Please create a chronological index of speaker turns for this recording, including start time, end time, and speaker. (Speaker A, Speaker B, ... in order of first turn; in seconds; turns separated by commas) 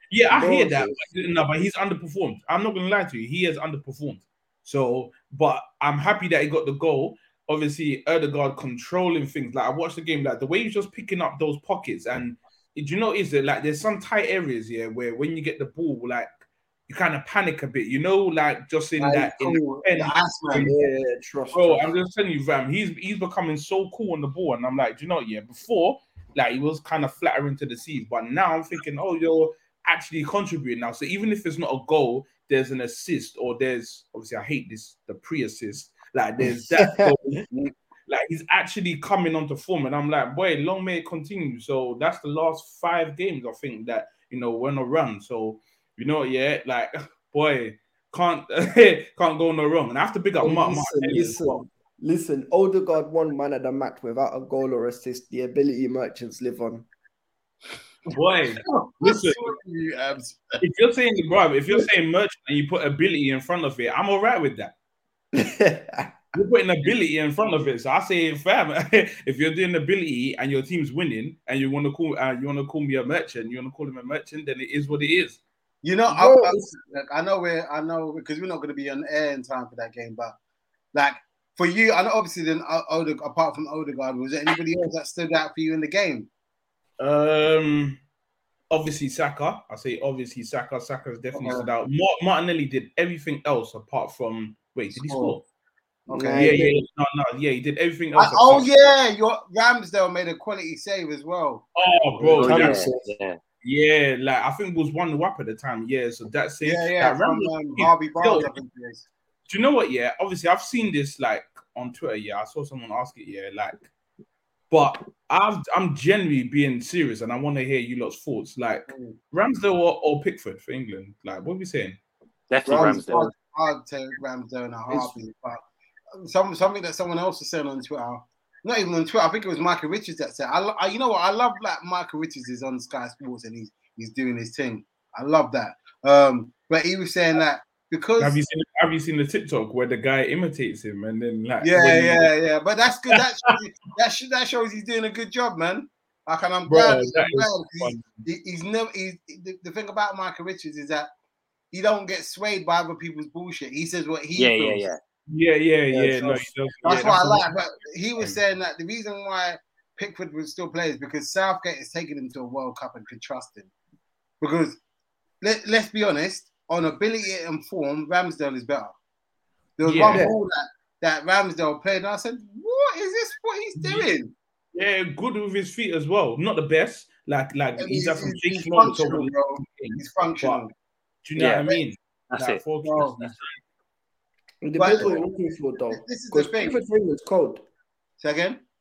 Speaker A: 0.1-20.7, Speaker B: 0.3-1.1, Speaker C: 19.0-20.7, Speaker B: 20.5-21.9, Speaker A: 21.5-51.6, Speaker B: 36.4-37.2, Speaker B: 50.4-56.9, Speaker A: 58.1-59.5, Speaker C: 58.6-60.6, Speaker A: 60.6-64.7, Speaker B: 65.3-66.2, Speaker A: 66.3-75.4, Speaker C: 75.8-80.3, Speaker B: 76.1-76.6, Speaker C: 80.9-86.3, Speaker A: 87.0-88.0, Speaker A: 88.7-95.4, Speaker C: 91.3-91.7, Speaker C: 94.9-95.4, Speaker C: 96.1-96.6, Speaker B: 96.1-96.8, Speaker A: 96.3-98.7, Speaker C: 98.2-101.7, Speaker A: 101.8-102.9, Speaker D: 102.2-103.4, Speaker B: 102.4-103.1, Speaker A: 103.6-108.5, Speaker C: 106.6-109.1, Speaker A: 109.5-113.9, Speaker A: 114.7-122.0, Speaker C: 118.9-119.2, Speaker D: 122.5-123.3, Speaker B: 122.7-123.3, Speaker C: 122.7-125.6, Speaker B: 124.9-125.1, Speaker C: 126.2-138.4, Speaker A: 138.2-142.3, Speaker C: 141.6-151.1, Speaker A: 143.1-143.5, Speaker A: 146.7-148.2, Speaker C: 151.7-154.9, Speaker D: 154.4-155.0, Speaker A: 155.3-157.5, Speaker B: 155.9-156.5, Speaker C: 156.8-163.7, Speaker C: 164.4-164.8, Speaker C: 165.4-169.0, Speaker C: 169.8-174.3, Speaker A: 169.8-170.3, Speaker B: 170.1-170.4, Speaker A: 173.8-174.1, Speaker A: 174.7-180.6, Speaker C: 177.8-180.7, Speaker A: 181.2-183.6, Speaker D: 181.4-181.7, Speaker D: 182.3-182.6, Speaker C: 182.8-183.2, Speaker B: 184.6-187.6, Speaker C: 184.8-185.2, Speaker C: 185.9-186.8, Speaker C: 188.2-188.6